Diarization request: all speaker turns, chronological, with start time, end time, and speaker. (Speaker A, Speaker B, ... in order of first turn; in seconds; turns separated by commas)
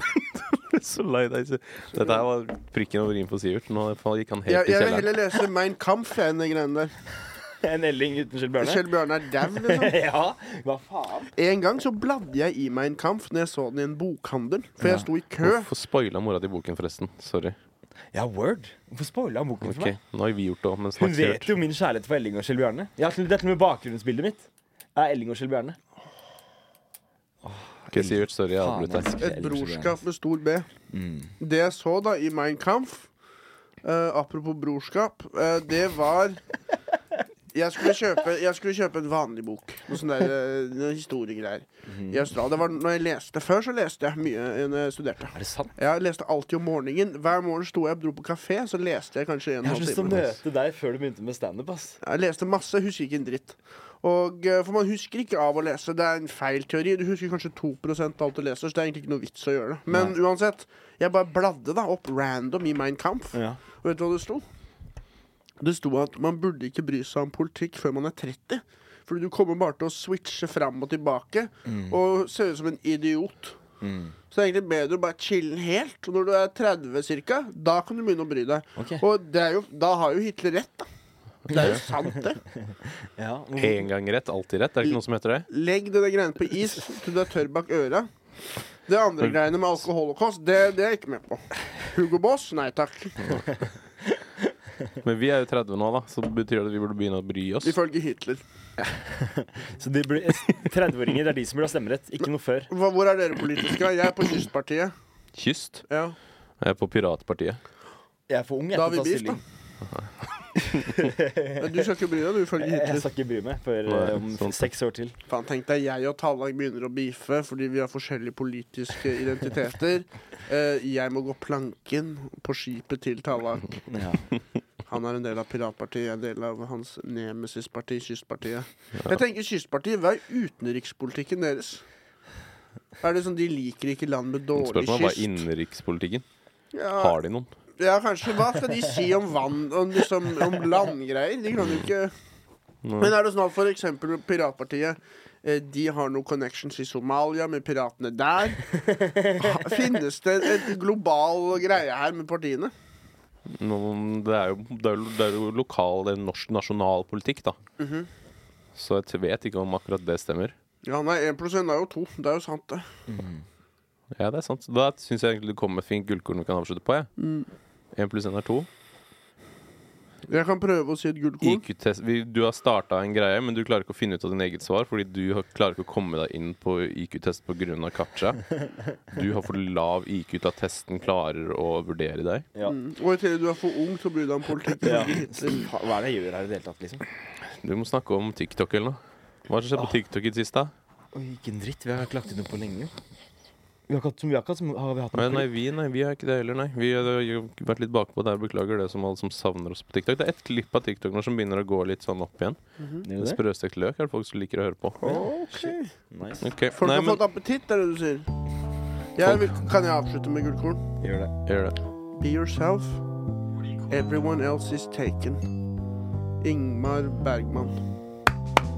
Speaker A: 0.1-5.4, Speaker B: 4.5-6.9, Speaker C: 7.6-11.3, Speaker B: 8.6-9.9, Speaker B: 11.3-15.7, Speaker C: 14.8-15.1, Speaker A: 15.4-17.6, Speaker C: 18.1-19.9, Speaker A: 19.6-21.5, Speaker C: 21.0-25.8, Speaker C: 27.4-30.0, Speaker A: 27.9-29.1, Speaker B: 29.2-30.7, Speaker C: 30.9-31.3, Speaker B: 31.4-33.1, Speaker B: 33.8-36.4, Speaker B: 37.5-50.3, Speaker C: 41.9-42.2, Speaker C: 45.3-45.7, Speaker C: 49.6-52.0, Speaker B: 52.0-64.4, Speaker C: 59.9-60.1, Speaker C: 63.3-63.6, Speaker B: 65.6-73.6, Speaker C: 71.6-72.0, Speaker C: 73.8-74.2, Speaker B: 74.3-80.9, Speaker C: 78.8-79.0, Speaker B: 81.5-82.4, Speaker A: 81.5-81.8, Speaker C: 82.7-83.8, Speaker A: 83.5-85.5, Speaker B: 85.5-88.1, Speaker B: 88.9-93.3, Speaker A: 93.2-93.5, Speaker C: 94.0-94.5, Speaker A: 95.0-97.8, Speaker B: 97.6-98.4, Speaker C: 98.8-102.7, Speaker B: 102.7-104.9, Speaker A: 105.3-105.8, Speaker B: 105.9-106.2, Speaker A: 106.6-107.6, Speaker C: 108.3-109.4, Speaker B: 108.7-109.4, Speaker A: 109.9-111.0, Speaker C: 110.7-111.9, Speaker B: 111.6-113.0, Speaker C: 112.6-115.2, Speaker A: 113.8-114.6, Speaker B: 115.3-123.7, Speaker C: 123.9-124.3, Speaker B: 124.9-131.8, Speaker B: 133.0-135.4, Speaker A: 134.6-136.2, Speaker B: 136.7-137.2, Speaker A: 137.0-137.5, Speaker B: 137.8-142.1, Speaker A: 142.8-143.1, Speaker B: 143.0-148.8, Speaker C: 148.9-149.8, Speaker B: 149.3-152.7, Speaker A: 153.5-157.6, Speaker B: 157.8-158.1, Speaker A: 158.7-160.5, Speaker B: 160.8-162.9, Speaker C: 163.1-163.4, Speaker A: 164.1-167.1, Speaker B: 167.2-167.5, Speaker A: 167.9-168.7, Speaker B: 170.3-171.6, Speaker A: 171.4-178.5, Speaker A: 179.1-182.4, Speaker B: 182.6-185.7, Speaker C: 184.8-187.0, Speaker A: 187.5-190.7, Speaker C: 191.1-192.9, Speaker C: 193.9-195.5, Speaker A: 195.1-202.6, Speaker B: 202.8-203.0, Speaker C: 203.0-203.4, Speaker A: 203.2-205.1, Speaker B: 205.0-205.9, Speaker C: 205.1-206.5, Speaker A: 206.4-207.2, Speaker B: 206.8-208.3, Speaker B: 209.1-210.8, Speaker A: 209.2-209.5, Speaker C: 211.0-211.3, Speaker A: 211.4-211.8, Speaker B: 212.2-213.0, Speaker B: 213.9-215.4, Speaker B: 216.4-217.8